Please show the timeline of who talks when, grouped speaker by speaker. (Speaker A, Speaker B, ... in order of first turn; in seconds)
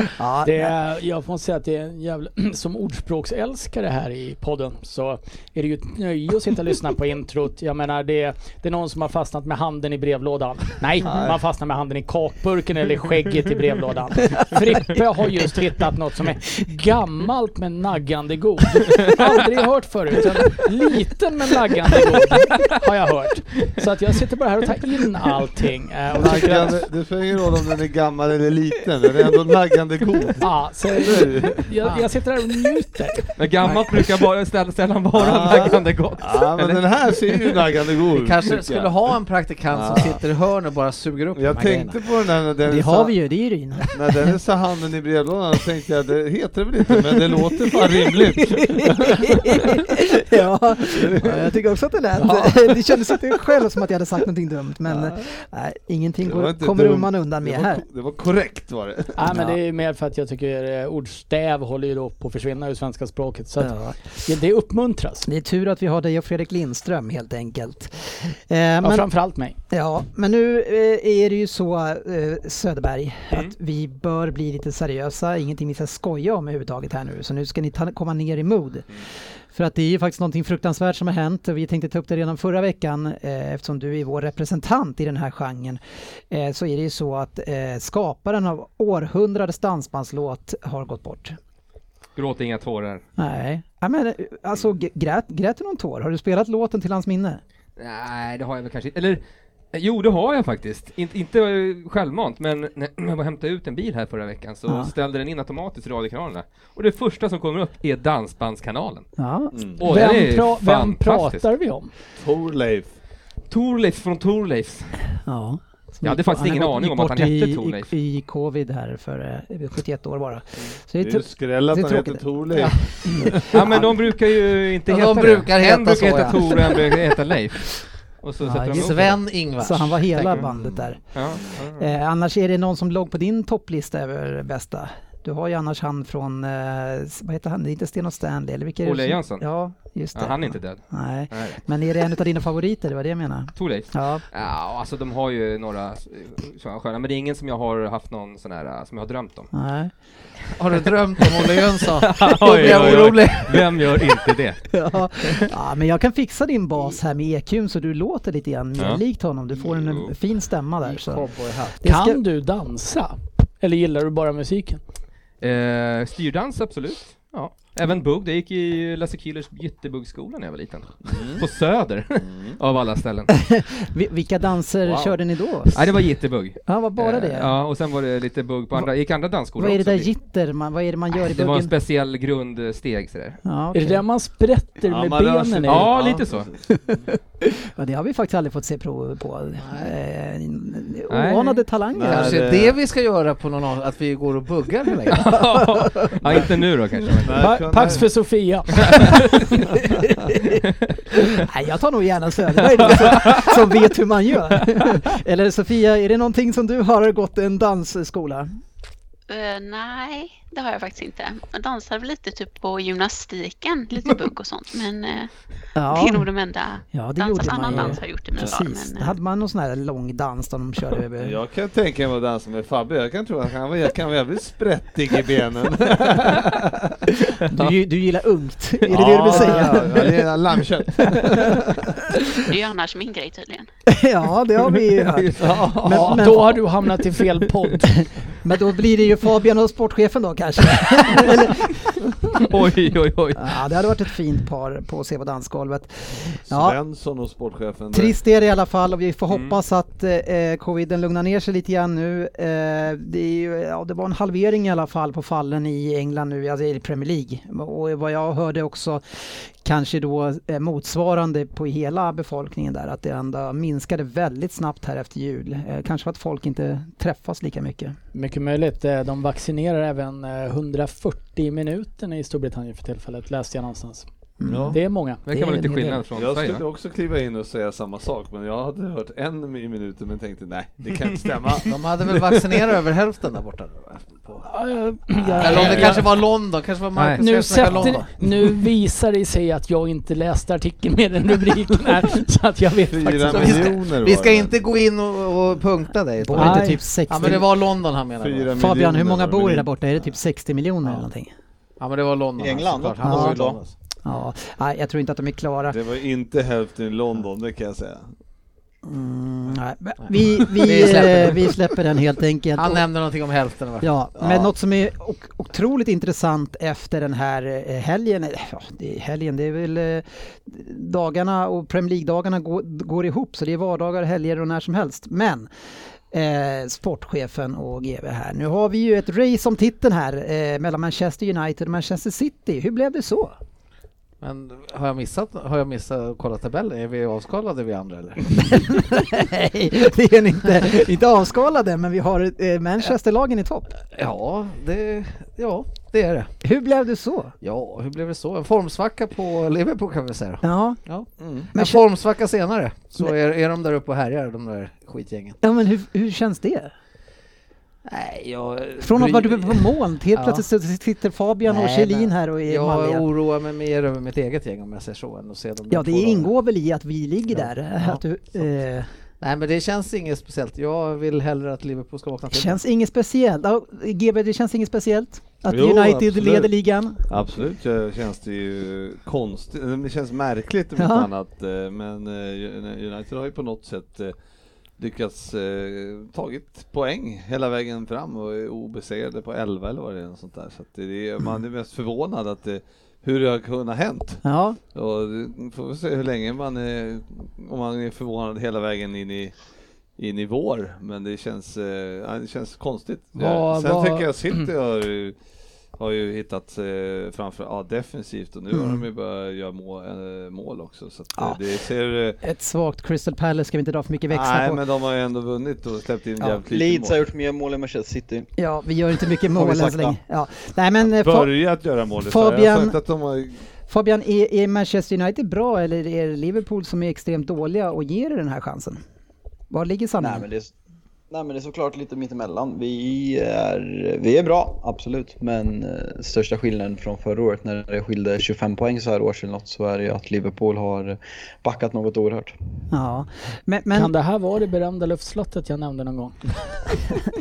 Speaker A: 0.2-0.7, 33.6-34.0, 42.7-44.4, 47.3-57.8, 59.3-59.5, 63.6-64.1, 65.2-69.1, 69.7-91.4, 93.2-97.4, 104.7-104.9, 109.2-109.5, 115.2-123.5, 128.4-144.2, 149.5-149.9, 154.7-162.2, 173.5-176.0, 176.7-177.5, 179.6-181.7, 183.4-184.0, 186.8-192.3, 201.4-208.5, 215.7-216.3, 216.9-221.4, 227.5-230.2, 231.0-231.5, 233.9-236.6, 238.0-242.1, 243.4-246.8, 247.9-267.9, 274.4-276.0, 285.3-286.0, 287.2-288.1, 296.2-297.5, 298.6-301.3, 303.0-303.5, 304.0-305.8, 308.8-312.9, 313.8-325.5, 326.1-333.4, 339.2-343.7, 346.4-347.3, 350.4-351.8, 355.4-356.7, 358.8-363.0, 365.7-368.9, 372.3-377.1, 380.8-381.1, 394.2-394.6, 408.5-408.8, 411.1-411.4, 412.2-414.6, 418.4-421.3, 422.0-422.8, 423.7-428.8, 429.5-430.2, 442.7-443.9
Speaker B: 0.4-26.8, 30.4-33.3, 59.1-65.3, 68.8-69.6, 109.8-111.9, 161.8-164.8, 183.7-185.9, 197.4-199.0, 235.9-238.0, 268.1-274.1, 274.7-275.2, 284.4-286.1, 287.5-293.8, 296.3-296.8, 403.1-404.1, 443.7-446.7
Speaker C: 11.0-11.4, 26.1-31.7, 35.1-38.9, 39.7-40.2, 41.3-43.1, 43.9-49.3, 50.9-51.5, 54.8-55.2, 56.2-59.3, 109.5-109.8, 112.2-112.9, 121.0-123.4, 171.0-171.4, 172.2-172.6, 174.8-175.1, 184.8-186.6, 191.9-192.8, 197.2-198.2, 221.2-227.0, 228.9-231.7, 235.4-236.2, 246.5-248.1, 274.5-274.8, 276.1-282.6, 292.9-294.5, 298.2-299.7, 305.7-308.1, 351.2-351.5, 375.5-376.5, 377.1-384.1, 384.8-399.4, 400.0-405.2, 405.7-412.2, 414.1-416.9, 420.8-423.4
Speaker D: 33.4-37.5, 92.2-93.0, 97.8-99.2, 99.7-111.5, 113.5-115.2, 116.0-117.9, 123.5-129.2, 131.1-131.9, 138.8-139.5, 140.1-141.6, 143.6-149.5, 151.2-155.4, 158.8-160.1, 165.4-173.3, 175.7-180.1, 181.2-183.4, 185.7-186.5, 191.1-191.6, 195.1-197.6, 198.9-199.3, 203.0-203.4, 228.9-229.7, 234.6-235.6, 242.4-243.9, 249.3-249.6, 275.2-276.6, 280.9-281.3, 286.9-287.2
Speaker E: 38.1-42.0, 124.9-126.9, 128.7-130.6, 150.6-153.8, 160.8-161.8, 189.6-189.9, 192.0-195.2, 281.7-284.5, 285.3-288.1, 293.2-298.6, 301.8-303.8, 310.0-311.7, 312.5-314.5, 334.2-338.7, 343.8-346.4, 347.4-355.4, 357.8-360.4, 361.4-366.3, 367.3-368.0, 369.2-372.6
Speaker F: 209.3-219.2, 232.5-233.7
Speaker G: 302.4-303.6, 416.5-418.3, 419.3-420.0, 430.0-430.5, 431.1-442.3